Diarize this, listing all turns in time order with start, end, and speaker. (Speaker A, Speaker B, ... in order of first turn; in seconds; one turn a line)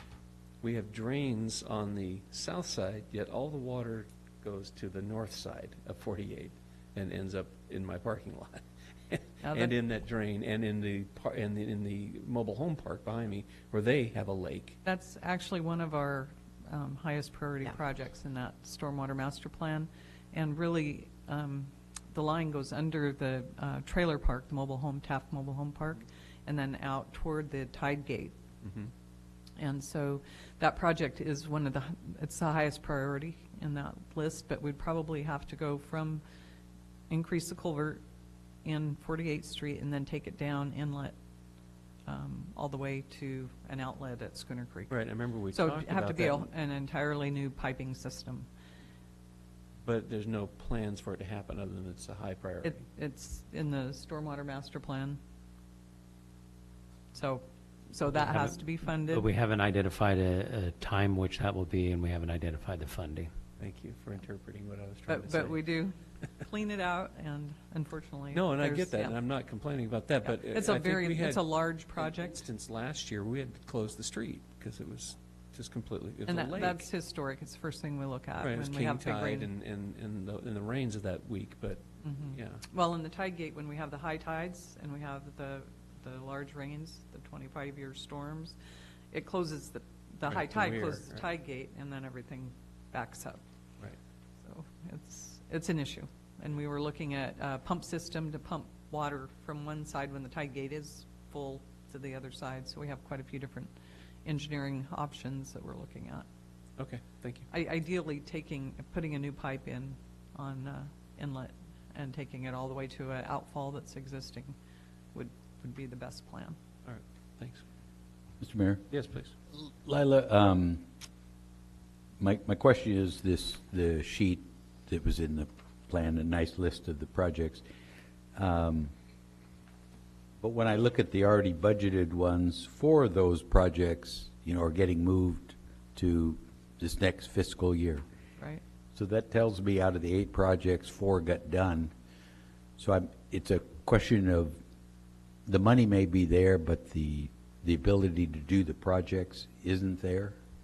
Speaker A: 0.6-14.8
Speaker B: 9.4-9.7
Speaker B: 14.8-28.4
Speaker A: 28.6-28.9
Speaker B: 29.6-36.2
Speaker B: 37.1-38.0
Speaker B: 38.6-41.1
Speaker B: 42.1-48.5
Speaker A: 44.9-46.5
Speaker A: 49.8-52.9
Speaker B: 52.6-55.2
Speaker B: 57.1-59.2
Speaker C: 58.1-63.3
Speaker A: 63.6-65.6
Speaker B: 65.1-69.2
Speaker A: 68.3-76.9
Speaker B: 70.2-72.4
Speaker B: 76.2-79.5
Speaker A: 78.4-82.6
Speaker B: 82.0-88.5
Speaker B: 89.1-93.4
Speaker A: 90.3-91.2
Speaker B: 94.4-103.7
Speaker B: 104.2-106.2
Speaker A: 106.8-107.5
Speaker B: 107.5-114.5
Speaker B: 115.1-116.6
Speaker A: 116.8-117.6
Speaker D: 118.4-118.8
Speaker A: 118.9-119.3
Speaker D: 119.5-120.8
Speaker D: 122.2-127.6
Speaker D: 128.3-128.9
Speaker D: 130.4-138.0
Speaker D: 138.9-141.9
Speaker D: 142.8-144.6
Speaker D: 145.4-150.4